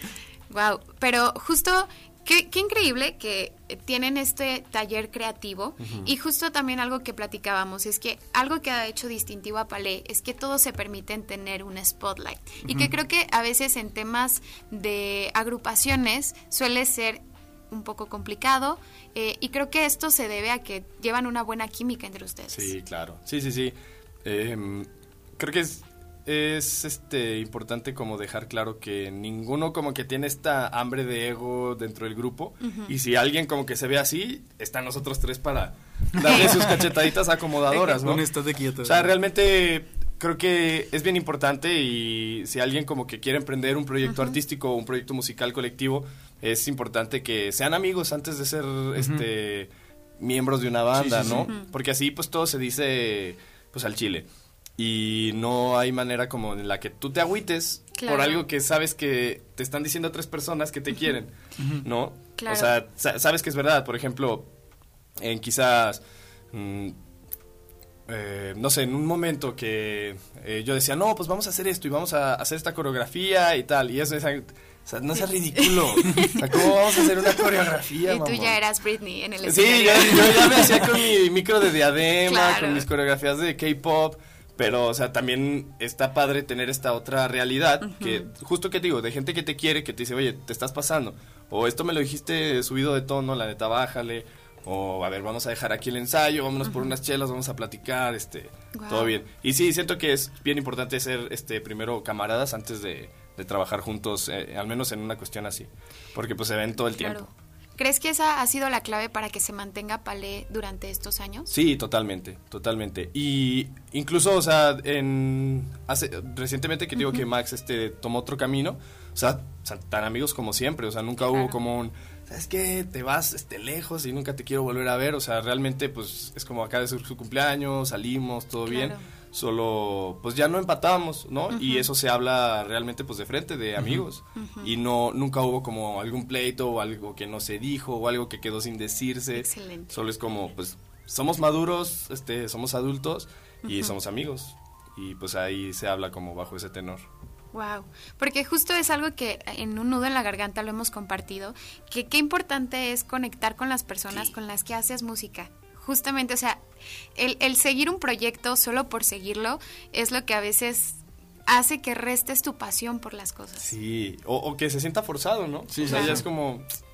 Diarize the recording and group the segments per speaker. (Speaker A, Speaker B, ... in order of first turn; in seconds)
Speaker A: 0.5-22.7, 32.6-32.9, 36.2-36.5, 44.0-44.4, 51.3-51.7, 58.0-58.4, 62.4-62.7, 75.1-76.4, 78.0-80.8, 82.2-82.8, 87.8-88.3, 96.6-96.9, 98.7-99.2, 107.0-111.5, 117.0-117.2, 121.3-121.6, 128.6-129.0, 131.5-131.9, 134.3-134.7, 139.3-139.9, 143.6-143.9, 147.5-156.6, 157.2-163.7, 165.9-166.2
Speaker B: 5.8-6.1, 22.5-38.2, 38.8-64.5, 65.2-67.0, 68.1-78.6, 79.4-107.3, 111.5-147.1, 163.6-166.7
Speaker C: 36.3-36.8, 37.7-39.1, 49.0-49.2, 50.9-51.5, 61.6-61.8, 133.8-134.0, 165.7-166.2